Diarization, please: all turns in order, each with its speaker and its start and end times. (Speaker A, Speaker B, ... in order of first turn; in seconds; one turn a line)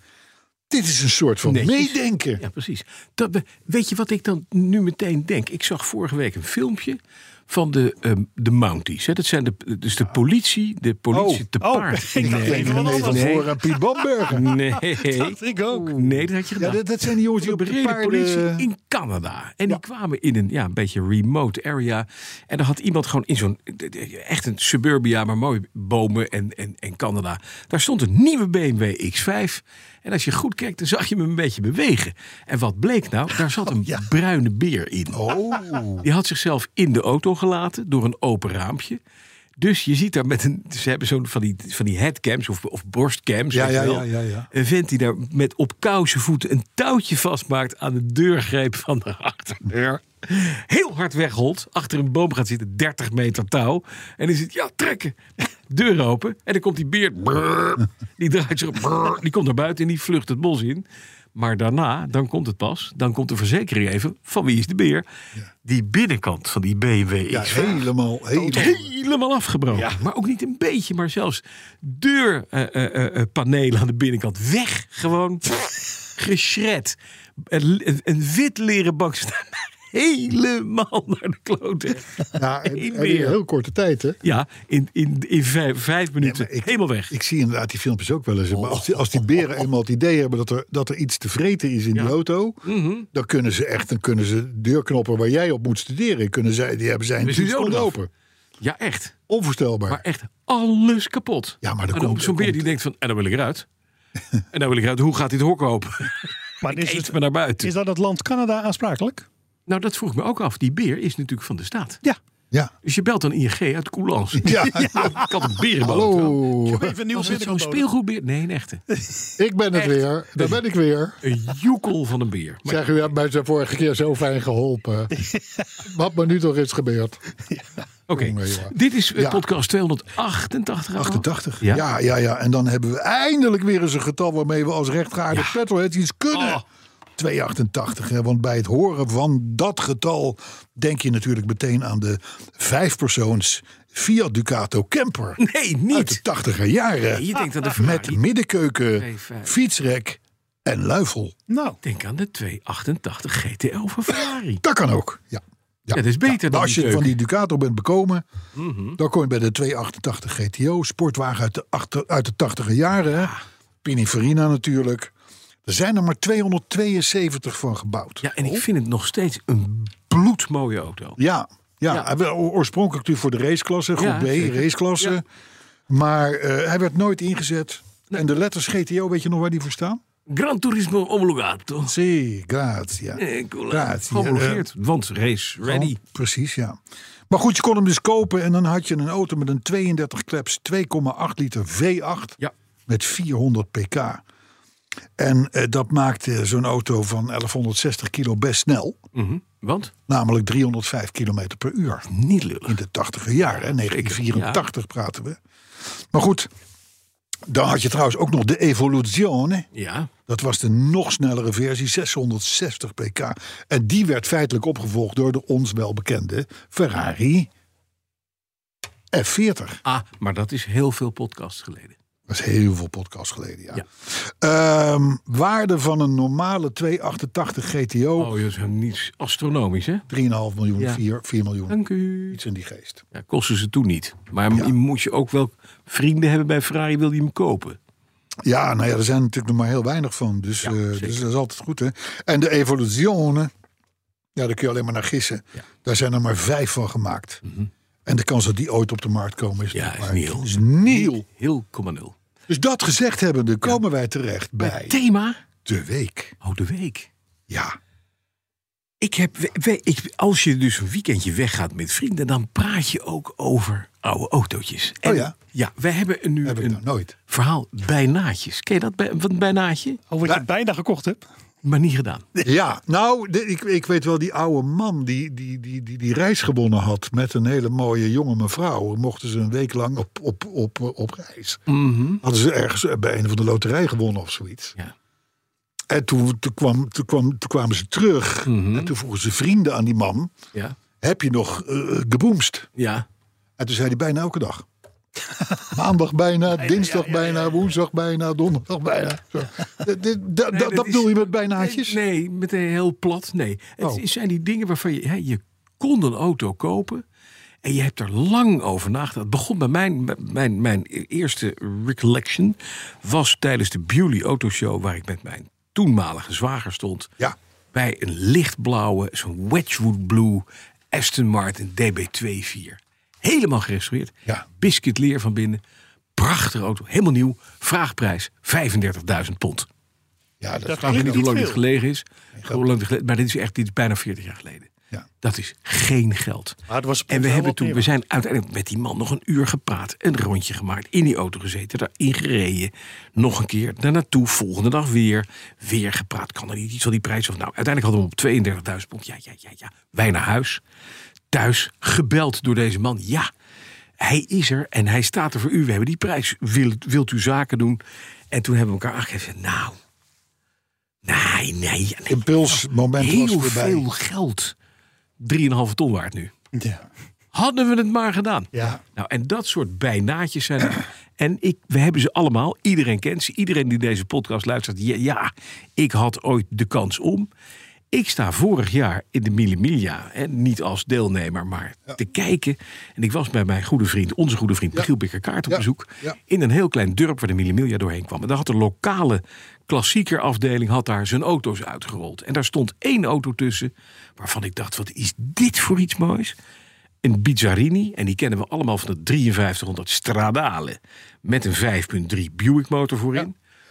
Speaker A: 0.7-2.4
Speaker B: 1.4-13.5
Speaker A: 11.1-11.4
Speaker C: 11.6-16.2
Speaker A: 12.2-14.5
Speaker B: 14.3-16.8
Speaker A: 16.6-18.7
Speaker B: 17.4-35.2
Speaker A: 35.1-36.1
Speaker B: 36.0-39.0
Speaker B: 39.6-65.0
Speaker A: 43.5-44.5
Speaker B: 65.6-67.9
Speaker A: 67.3-68.9
Speaker B: 68.4-75.6
Speaker B: 76.1-83.4
Speaker A: 82.3-84.2
Speaker B: 84.2-87.1
Speaker A: 86.2-92.6
Speaker B: 88.5-89.4
Speaker B: 91.9-93.1
Speaker A: 93.1-98.1
Speaker B: 97.2-98.0
Speaker B: 98.6-99.1
Speaker A: 99.3-100.0
Speaker B: 99.9-103.7
Speaker A: 101.6-102.7
Speaker B: 104.5-107.7
Speaker C: 106.6-109.3
Speaker B: 109.7-112.0
Speaker B: 112.8-116.4
Speaker A: 114.4-117.0
Speaker C: 114.5-115.2
Speaker C: 116.6-117.8
Speaker B: 117.1-118.8
Speaker A: 119.4-121.2
Speaker B: 121.2-122.9
Speaker A: 122.7-125.1
Speaker C: 125.1-125.6
Speaker A: 125.8-127.2
Speaker B: 128.1-131.8
Speaker A: 128.1-129.4
Speaker A: 130.9-136.6
Speaker A: 137.2-145.4
Speaker B: 145.4-146.2
Speaker A: 145.9-151.3
Speaker B: 147.1-148.2
Speaker B: 149.0-149.5
Speaker C: 151.5-151.8
Speaker B: 151.8-154.6
Speaker A: 154.6-158.2
Speaker B: 155.9-157.2
Speaker B: 158.5-159.0
Speaker A: 159.0-163.3
Speaker B: 163.1-163.4
Speaker A: 163.8-165.1
Speaker A: 165.7-168.6
Speaker B: 168.2-171.2
Speaker A: 171.2-175.2
Speaker B: 173.9-175.2
Speaker A: 175.9-180.0
Speaker B: 180.3-181.9
Speaker A: 181.8-184.7
Speaker B: 183.2-186.0
Speaker A: 185.6-186.8
Speaker A: 187.3-192.3
Speaker A: 192.9-194.2
Speaker A: 195.2-199.0
Speaker B: 199.1-199.9
Speaker A: 200.1-202.1
Speaker B: 202.1-202.8
Speaker A: 202.7-205.4
Speaker B: 203.6-204.6
Speaker A: 206.1-206.5
Speaker A: 207.5-209.7
Speaker B: 209.7-210.1
Speaker A: 210.3-217.5
Speaker A: 219.1-219.8
Speaker B: 219.8-221.9
Speaker A: 222.3-228.3
Speaker B: 228.2-230.1
Speaker A: 230.1-233.0
Speaker B: 231.7-232.4
Speaker B: 233.1-237.8
Speaker A: 238.4-243.5
Speaker B: 240.6-241.2
Speaker A: 244.3-247.4
Speaker A: 248.1-251.2
Speaker B: 249.7-252.1
Speaker A: 252.5-255.0
Speaker B: 254.6-255.4
Speaker A: 255.6-256.3
Speaker B: 256.4-257.1
Speaker A: 257.5-257.8
Speaker B: 259.0-270.0
Speaker A: 265.0-265.3
Speaker A: 266.4-267.1
Speaker C: 270.1-271.2
Speaker B: 271.6-272.2
Speaker A: 272.4-281.6
Speaker B: 281.7-282.2
Speaker A: 282.2-284.7
Speaker A: 285.9-290.3
Speaker B: 288.4-288.9
Speaker A: 291.0-292.7
Speaker B: 292.8-293.1
Speaker A: 293.6-294.6
Speaker A: 295.7-302.0
Speaker C: 296.6-297.6
Speaker B: 300.5-307.0
Speaker B: 307.6-317.1
Speaker B: 317.7-325.6
Speaker B: 326.1-329.7
Speaker A: 330.4-331.3
Speaker C: 330.6-331.6
Speaker B: 330.8-334.7
Speaker A: 332.3-332.6
Speaker B: 335.2-336.6
Speaker C: 336.7-337.9
Speaker B: 337.1-350.6
Speaker B: 351.3-353.3
Speaker B: 354.0-359.8
Speaker B: 361.0-364.5
Speaker A: 362.1-363.9
Speaker B: 365.2-366.3
Speaker C: 366.5-366.8
Speaker B: 367.3-377.3
Speaker B: 377.9-396.3
Speaker A: 385.5-386.1
Speaker B: 397.0-403.3